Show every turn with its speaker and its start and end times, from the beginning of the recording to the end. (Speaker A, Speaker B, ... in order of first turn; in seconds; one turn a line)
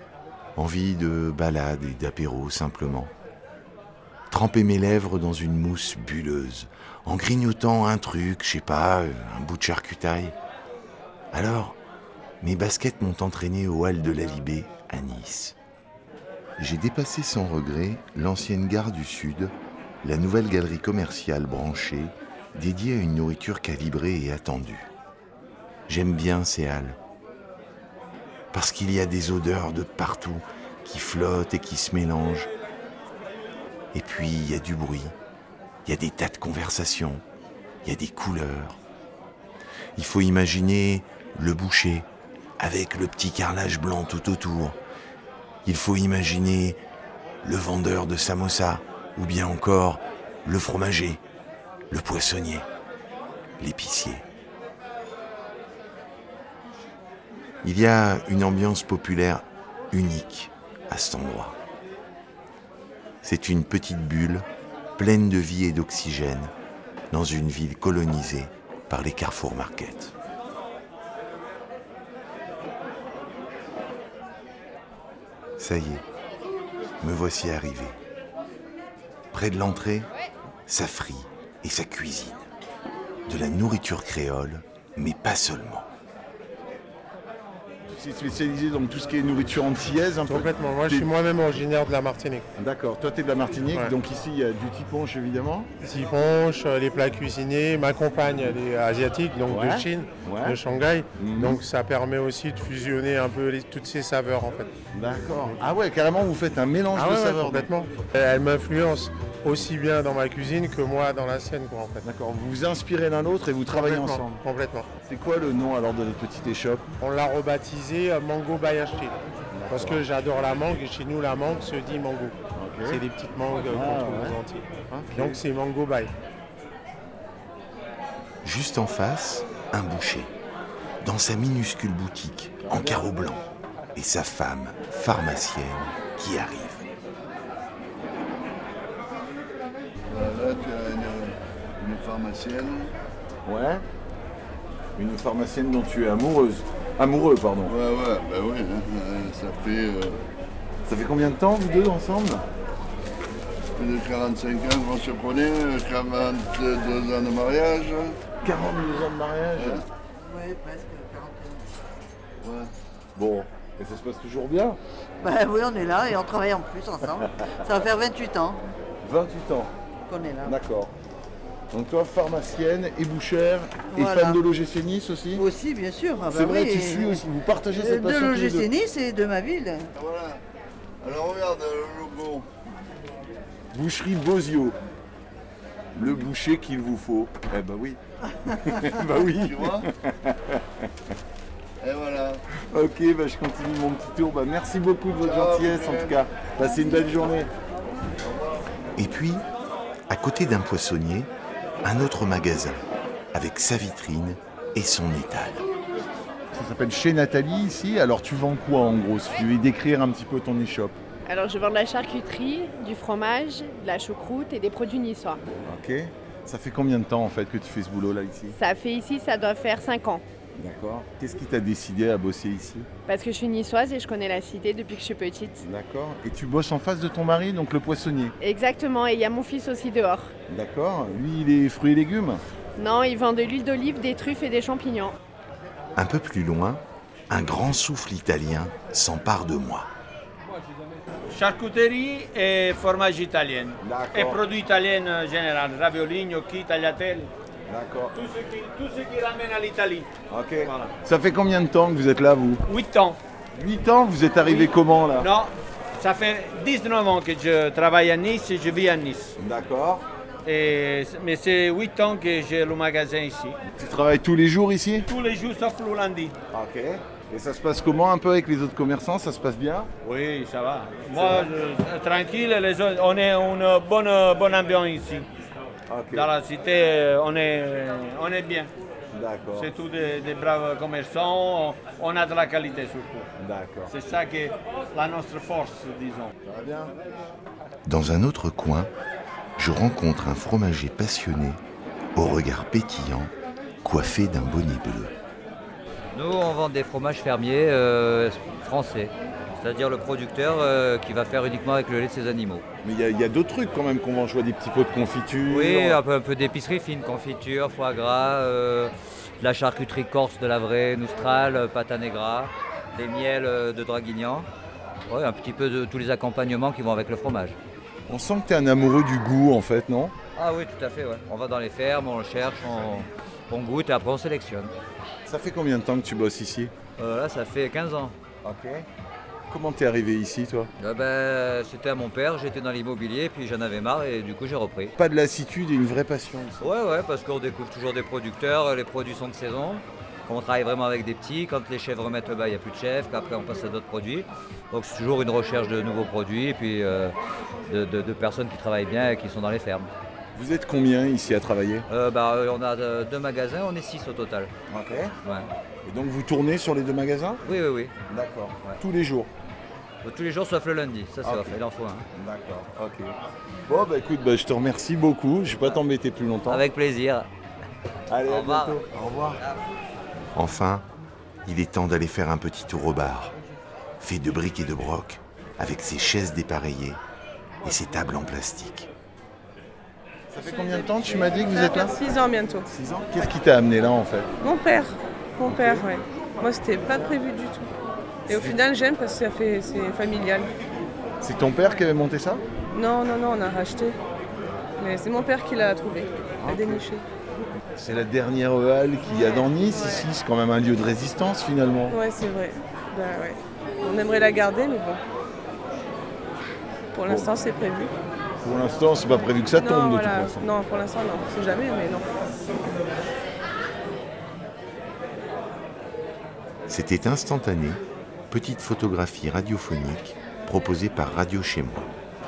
Speaker A: 0.6-3.1
Speaker A: 4.3-10.3
Speaker A: 11.3-11.8
Speaker A: 12.4-15.6
Speaker A: 16.6-24.9
Speaker A: 25.9-27.0
Speaker A: 28.5-32.5
Speaker A: 33.9-35.1
Speaker A: 35.9-37.2
Speaker A: 37.8-38.8
Speaker A: 40.0-42.1
Speaker A: 42.6-44.8
Speaker A: 45.6-46.8
Speaker A: 47.4-51.2
Speaker A: 51.9-52.7
Speaker A: 53.6-54.3
Speaker A: 57.6-61.6
Speaker A: 63.2-64.5
Speaker A: 65.0-66.5
Speaker A: 67.1-70.1
Speaker A: 75.6-76.0
Speaker A: 77.0-78.0
Speaker A: 79.3-80.1
Speaker A: 80.7-82.5
Speaker A: 83.3-85.9
Speaker B: 87.9-91.1
Speaker C: 90.3-92.5
Speaker B: 92.6-95.7
Speaker C: 93.7-94.0
Speaker C: 95.8-104.7
Speaker B: 99.5-100.6
Speaker B: 101.2-101.6
Speaker B: 104.9-107.7
Speaker C: 106.9-112.1
Speaker B: 112.0-114.4
Speaker C: 113.7-114.9
Speaker B: 115.0-116.9
Speaker C: 117.0-122.4
Speaker B: 119.5-120.0
Speaker B: 122.5-123.0
Speaker C: 122.9-126.1
Speaker B: 123.7-125.4
Speaker A: 128.4-130.3
Speaker A: 131.0-133.4
Speaker B: 132.7-133.2
Speaker A: 133.9-136.9
Speaker D: 140.1-142.9
Speaker B: 143.4-143.8
Speaker B: 145.0-147.8
Speaker D: 147.7-150.2
Speaker B: 150.9-152.4
Speaker D: 153.8-158.2
Speaker B: 158.4-159.8
Speaker D: 159.6-159.9
Speaker E: 160.2-161.8
Speaker D: 162.4-162.7
Speaker B: 163.2-164.8
Speaker E: 165.2-168.7
Speaker B: 169.0-169.7
Speaker E: 170.1-170.6
Speaker B: 170.4-170.9
Speaker B: 171.7-175.4
Speaker E: 173.9-174.4
Speaker E: 175.3-179.9
Speaker B: 176.3-178.7
Speaker D: 180.0-180.4
Speaker D: 181.0-182.5
Speaker B: 183.7-184.8
Speaker B: 185.9-190.9
Speaker D: 189.3-189.8
Speaker D: 191.8-192.4
Speaker B: 192.6-197.5
Speaker D: 195.2-196.2
Speaker D: 198.2-198.7
Speaker A: 199.0-199.5
Speaker A: 200.1-201.3
Speaker A: 201.8-205.7
Speaker B: 206.5-211.0
Speaker F: 211.3-215.4
Speaker B: 215.7-218.6
Speaker F: 218.5-220.2
Speaker B: 220.6-222.9
Speaker F: 223.1-225.6
Speaker B: 225.6-228.3
Speaker F: 228.4-230.3
Speaker B: 230.5-232.4
Speaker F: 232.8-235.2
Speaker A: 236.0-239.9
Speaker G: 241.3-247.3
Speaker B: 243.8-244.4
Speaker B: 247.7-248.1
Speaker G: 248.1-250.1
Speaker B: 250.3-252.6
Speaker G: 250.6-250.9
Speaker G: 252.7-253.2
Speaker B: 253.5-255.3
Speaker G: 254.4-259.4
Speaker B: 259.4-260.1
Speaker G: 260.4-263.6
Speaker B: 263.6-265.1
Speaker G: 265.1-266.4
Speaker B: 266.5-269.9
Speaker G: 270.0-275.3
Speaker B: 271.1-271.5
Speaker B: 275.9-276.3
Speaker G: 276.1-278.7
Speaker B: 279.1-279.7
Speaker G: 279.6-283.3
Speaker B: 283.4-283.9
Speaker G: 283.9-286.3
Speaker B: 286.4-286.9
Speaker A: 287.9-288.9
Speaker A: 289.6-291.6
Speaker A: 292.1-295.1
Speaker H: 296.1-302.6
Speaker B: 302.8-306.0
Speaker H: 305.5-314.5
Speaker H: 315.1-317.6
Speaker B: 318.1-320.1
Speaker H: 320.4-324.7
Speaker B: 325.3-326.7
Speaker H: 327.0-328.1
Speaker B: 328.4-328.9
Speaker B: 329.5-330.7
Speaker H: 330.8-334.9
Speaker B: 335.0-336.7
Speaker H: 336.6-347.1
Speaker H: 347.7-349.9
Speaker B: 350.4-351.9
Speaker H: 351.9-354.5
Speaker B: 354.7-355.1
Speaker H: 355.2-355.5
Speaker B: 355.8-357.4
Speaker H: 357.4-357.9
Speaker B: 358.1-359.3
Speaker H: 360.0-362.1
Speaker B: 361.2-361.6
Speaker B: 362.1-363.1
Speaker B: 363.7-366.6
Speaker H: 366.5-367.3
Speaker B: 368.1-369.4
Speaker H: 368.2-368.8
Speaker H: 369.4-369.6
Speaker A: 370.4-370.9
Speaker A: 371.4-373.3
Speaker A: 374.0-377.0
Speaker A: 377.6-378.9
Speaker B: 380.3-382.1
Speaker I: 380.5-382.7
Speaker B: 382.6-384.3
Speaker I: 384.4-387.7
Speaker B: 385.4-385.9
Speaker I: 388.3-390.5
Speaker B: 388.3-388.6
Speaker B: 391.2-392.4
Speaker I: 392.7-394.0
Speaker I: 394.8-397.1
Speaker B: 396.4-396.8
Speaker B: 397.8-402.0
Speaker I: 399.1-400.1
Speaker I: 401.9-405.0
Speaker I: 406.9-407.9
Speaker B: 407.1-407.3
Speaker B: 408.4-410.5
Speaker I: 409.6-412.1
Speaker A: 416.7-421.9